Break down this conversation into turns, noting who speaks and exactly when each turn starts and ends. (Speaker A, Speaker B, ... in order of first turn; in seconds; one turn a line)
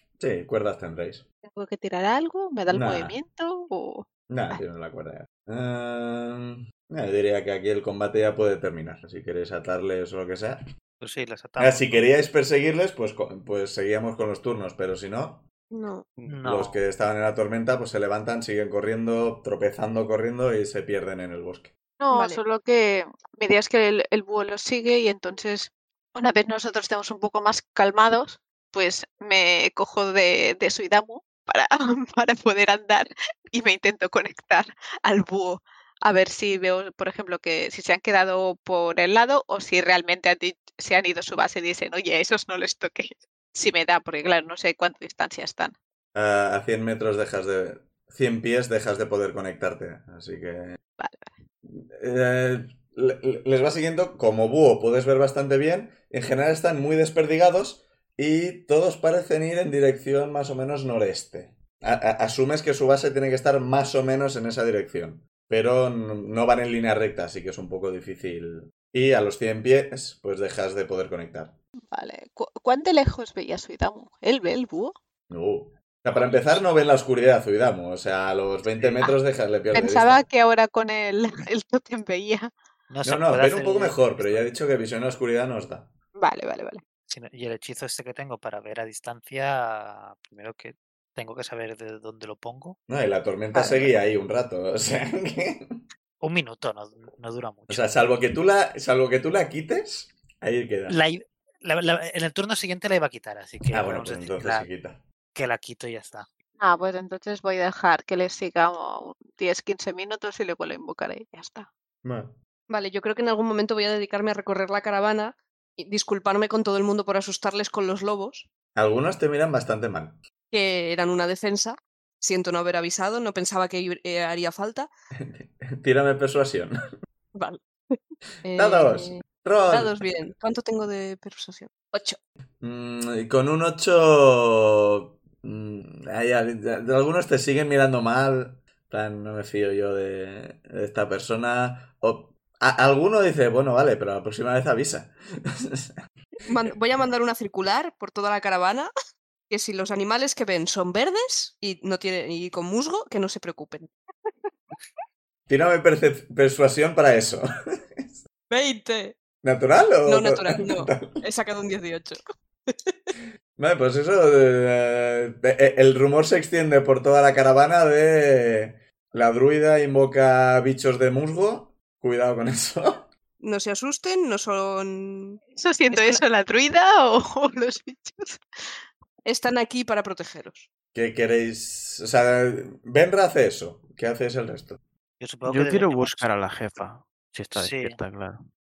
Speaker A: 0.2-1.2
Speaker B: 1.4-4.6
Speaker A: 2.7-3.2
Speaker A: 4.3-10.6
Speaker C: 11.0-12.1
Speaker A: 11.6-15.4
Speaker D: 15.7-16.1
Speaker C: 16.3-16.8
Speaker A: 16.4-21.7
Speaker B: 22.0-45.7
Speaker D: 22.1-22.4
Speaker A: 46.1-50.8
Speaker B: 51.0-51.3
Speaker A: 51.6-71.6
Speaker B: 71.9-75.0
Speaker A: 75.3-80.2
Speaker B: 76.3-76.6
Speaker C: 78.7-79.1
Speaker B: 79.7-82.5
Speaker C: 82.9-84.5
Speaker A: 83.0-85.9
Speaker B: 86.2-86.8
Speaker C: 87.1-92.8
Speaker A: 92.9-95.8
Speaker B: 93.5-93.9
Speaker C: 96.2-97.9
Speaker A: 97.7-101.0
Speaker C: 100.9-104.7
Speaker A: 103.7-105.0
Speaker C: 105.3-106.3
Speaker B: 106.6-111.7
Speaker A: 112.0-112.3
Speaker D: 112.7-118.5
Speaker A: 118.7-120.2
Speaker D: 120.5-124.9
Speaker A: 125.2-126.8
Speaker D: 127.3-132.2
Speaker A: 128.5-130.1
Speaker A: 132.6-146.0
Speaker D: 146.5-148.9
Speaker D: 149.5-154.5
Speaker A: 155.5-158.2
Speaker D: 158.5-159.2
Speaker A: 159.4-161.2
Speaker D: 160.1-163.1
Speaker A: 163.6-173.1
Speaker D: 173.4-176.2
Speaker B: 175.6-178.4
Speaker D: 179.2-180.7
Speaker A: 180.9-184.8
Speaker C: 185.2-186.3
Speaker E: 185.4-188.4
Speaker C: 187.5-188.0